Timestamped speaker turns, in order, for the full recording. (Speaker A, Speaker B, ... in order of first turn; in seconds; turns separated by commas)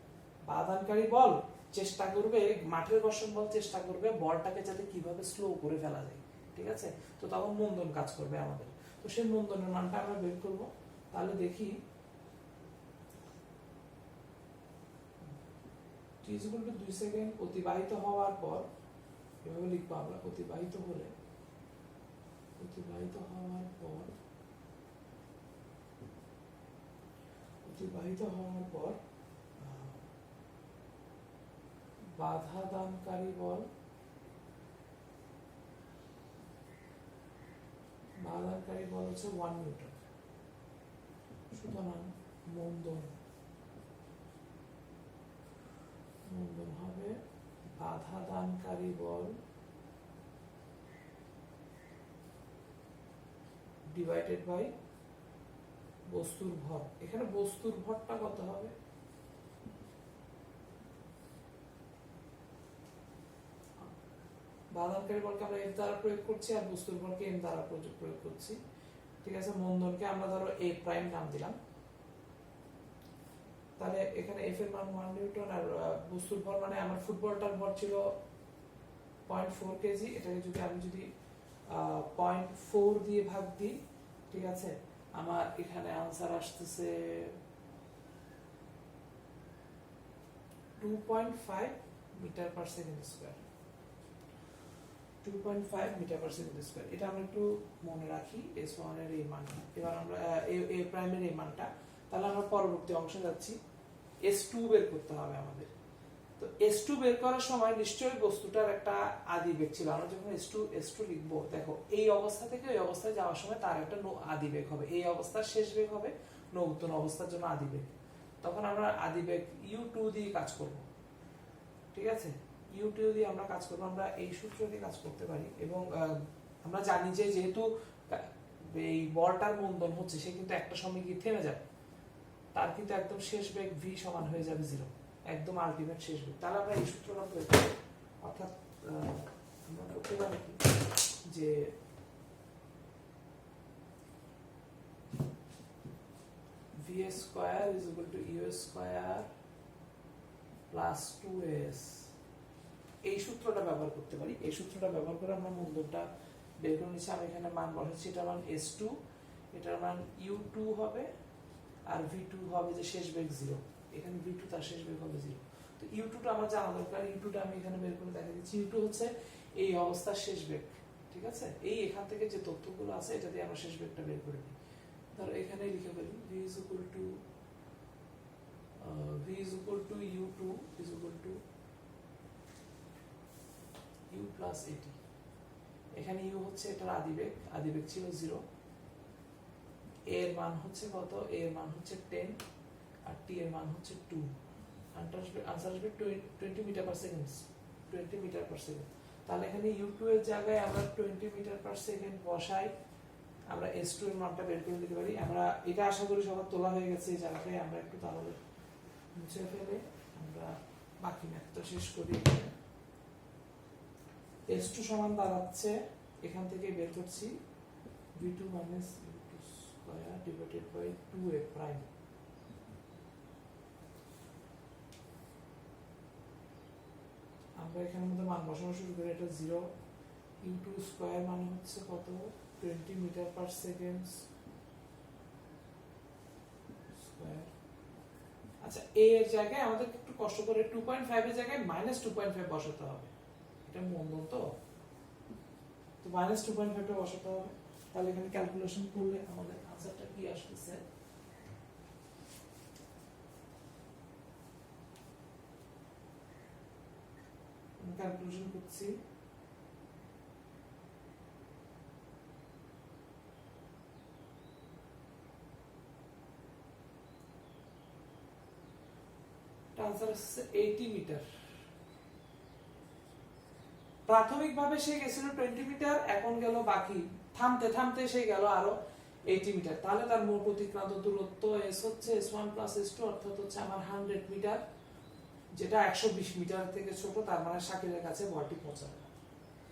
Speaker A: 0.5-11.8, Speaker A: 16.2-18.7, Speaker A: 19.4-21.1, Speaker A: 22.6-24.1, Speaker A: 27.6-29.0, Speaker A: 29.6-30.0, Speaker A: 32.2-33.7, Speaker A: 38.2-40.0, Speaker A: 41.5-43.2, Speaker A: 46.3-47.2, Speaker A: 47.8-49.4, Speaker A: 53.9-54.7, Speaker A: 56.1-58.7, Speaker A: 64.7-68.6, Speaker A: 69.2-71.6, Speaker A: 73.8-78.1, Speaker A: 79.3-81.1, Speaker A: 81.7-83.8, Speaker A: 84.3-87.4, Speaker A: 90.8-93.5, Speaker A: 95.2-103.6, Speaker A: 104.2-105.7, Speaker A: 106.4-120.9, Speaker A: 121.9-131.7, Speaker A: 132.6-140.7, Speaker A: 141.2-141.7, Speaker A: 146.8-149.3, Speaker A: 150.7-152.1, Speaker A: 153.0-156.1, Speaker A: 156.6-158.9, Speaker A: 159.5-161.1, Speaker A: 161.9-174.6, Speaker A: 175.1-177.2, Speaker A: 178.8-181.4, Speaker A: 184.1-185.0, Speaker A: 185.9-188.4, Speaker A: 190.1-192.4, Speaker A: 193.1-194.3, Speaker A: 194.9-202.7, Speaker A: 203.5-208.4, Speaker A: 209.2-212.5, Speaker A: 214.5-217.3, Speaker A: 218.2-221.9, Speaker A: 227.6-229.7, Speaker A: 230.4-234.3, Speaker A: 237.0-237.5, Speaker A: 238.6-243.1, Speaker A: 243.7-244.5, Speaker A: 246.0-250.8, Speaker A: 257.8-259.0, Speaker A: 269.8-271.2, Speaker A: 274.1-278.8, Speaker A: 279.3-284.6, Speaker A: 285.6-289.1